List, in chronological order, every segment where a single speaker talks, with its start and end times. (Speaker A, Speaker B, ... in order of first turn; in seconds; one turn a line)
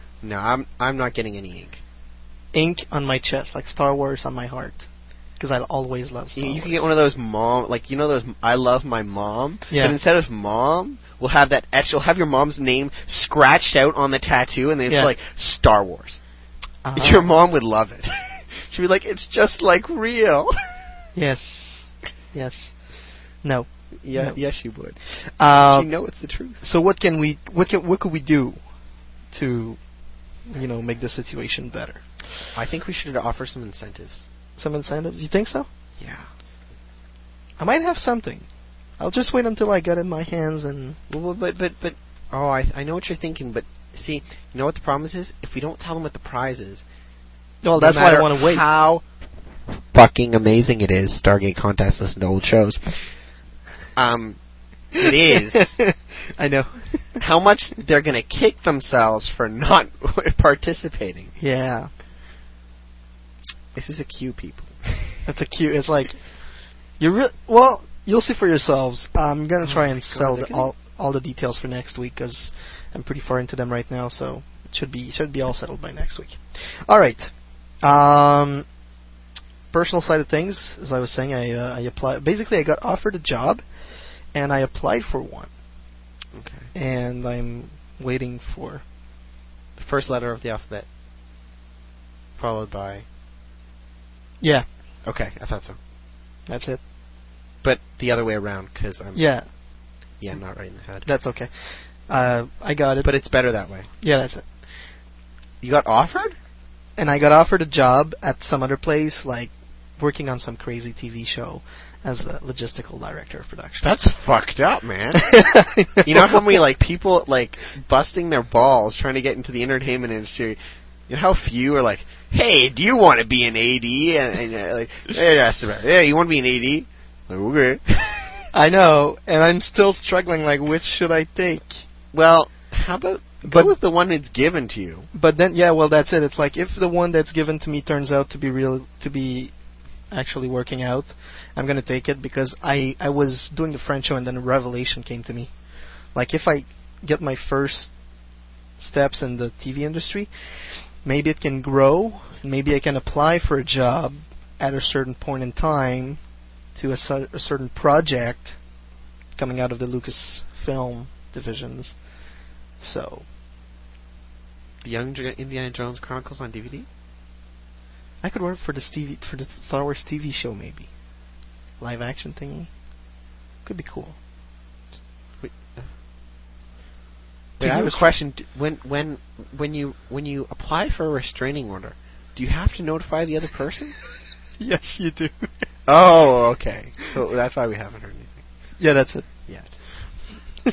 Speaker A: 0.2-1.8
Speaker B: 2.5-6.9
Speaker A: 6.3-16.2
Speaker B: 9.7-10.0
Speaker B: 16.8-17.3
Speaker A: 16.9-20.5
Speaker B: 21.1-32.4
Speaker A: 24.0-26.6
Speaker A: 32.5-34.3
Speaker B: 34.6-35.7
Speaker A: 36.0-36.3
Speaker B: 37.6-38.5
Speaker B: 39.0-41.0
Speaker A: 41.1-46.8
Speaker B: 47.6-48.6
Speaker A: 47.8-49.0
Speaker A: 49.9-53.1
Speaker A: 53.9-54.4
Speaker A: 54.9-55.8
Speaker B: 55.3-57.2
Speaker A: 57.2-61.3
Speaker B: 61.4-61.9
Speaker A: 63.7-65.2
Speaker B: 65.2-78.7
Speaker A: 69.6-70.7
Speaker B: 79.7-85.5
Speaker A: 86.3-86.7
Speaker B: 86.7-88.8
Speaker A: 89.7-90.9
Speaker A: 92.3-93.0
Speaker B: 94.4-94.7
Speaker A: 95.0-95.8
Speaker B: 96.5-96.8
Speaker A: 97.6-99.5
Speaker B: 99.1-99.5
Speaker B: 100.1-104.4
Speaker A: 100.2-101.2
Speaker A: 103.0-103.9
Speaker A: 105.6-106.3
Speaker B: 107.0-113.9
Speaker A: 113.8-128.5
Speaker B: 115.1-116.6
Speaker B: 128.5-131.8
Speaker A: 132.1-135.1
Speaker B: 133.4-133.7
Speaker B: 135.1-139.5
Speaker B: 140.1-145.6
Speaker B: 146.1-147.9
Speaker B: 148.8-158.6
Speaker B: 159.3-162.1
Speaker B: 162.8-163.3
Speaker A: 164.8-166.9
Speaker B: 168.2-170.9
Speaker B: 171.8-172.8
Speaker B: 173.6-174.2
Speaker A: 175.4-175.9
Speaker A: 177.6-183.9
Speaker B: 177.6-178.1
Speaker B: 184.6-185.5
Speaker A: 185.8-188.4
Speaker B: 188.8-189.5
Speaker A: 189.5-190.2